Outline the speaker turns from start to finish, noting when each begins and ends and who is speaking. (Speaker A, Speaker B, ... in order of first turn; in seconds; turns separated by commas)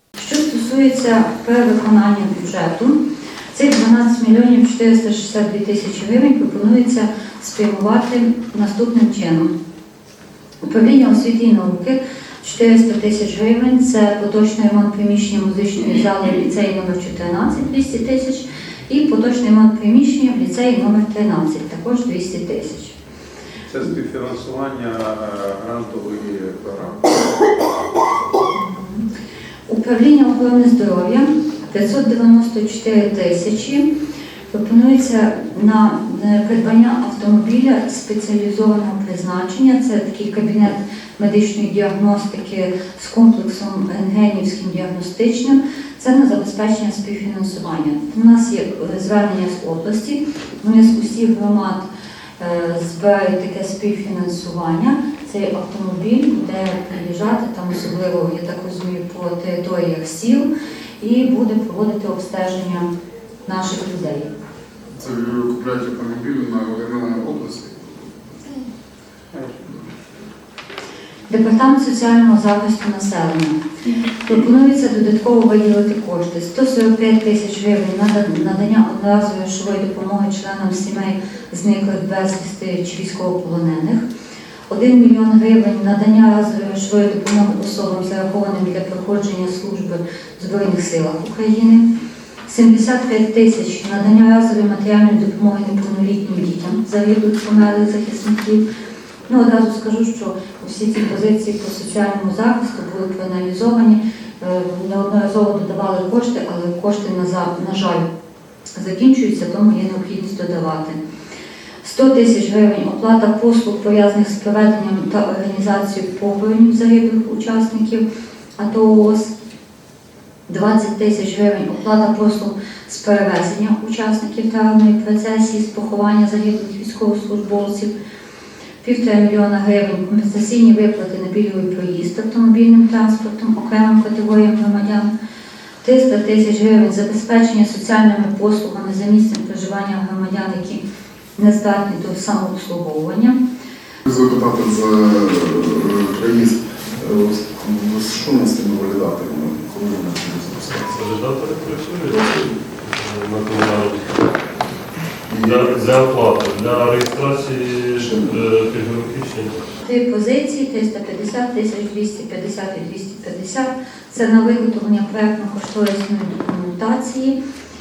Speaker A: 0.2-3.0, Speaker A: 3.5-9.5, Speaker A: 10.6-22.9, Speaker B: 23.7-27.5, Speaker A: 28.5-29.0, Speaker A: 29.7-33.9, Speaker A: 34.5-51.9, Speaker A: 52.4-60.5, Speaker A: 61.0-62.9, Speaker A: 63.4-64.3, Speaker C: 65.0-68.1, Speaker A: 71.3-73.6, Speaker A: 74.2-84.0, Speaker A: 84.7-91.8, Speaker A: 92.5-98.6, Speaker A: 99.3-108.0, Speaker A: 108.8-111.0, Speaker A: 111.8-118.0, Speaker A: 118.6-119.3, Speaker A: 120.5-127.9, Speaker A: 128.8-135.1, Speaker A: 135.8-140.8, Speaker A: 141.4-143.4, Speaker C: 144.0-151.0, Speaker D: 150.8-154.1, Speaker C: 155.3-155.7, Speaker D: 155.4-159.6, Speaker C: 158.0-158.4, Speaker A: 159.8-167.4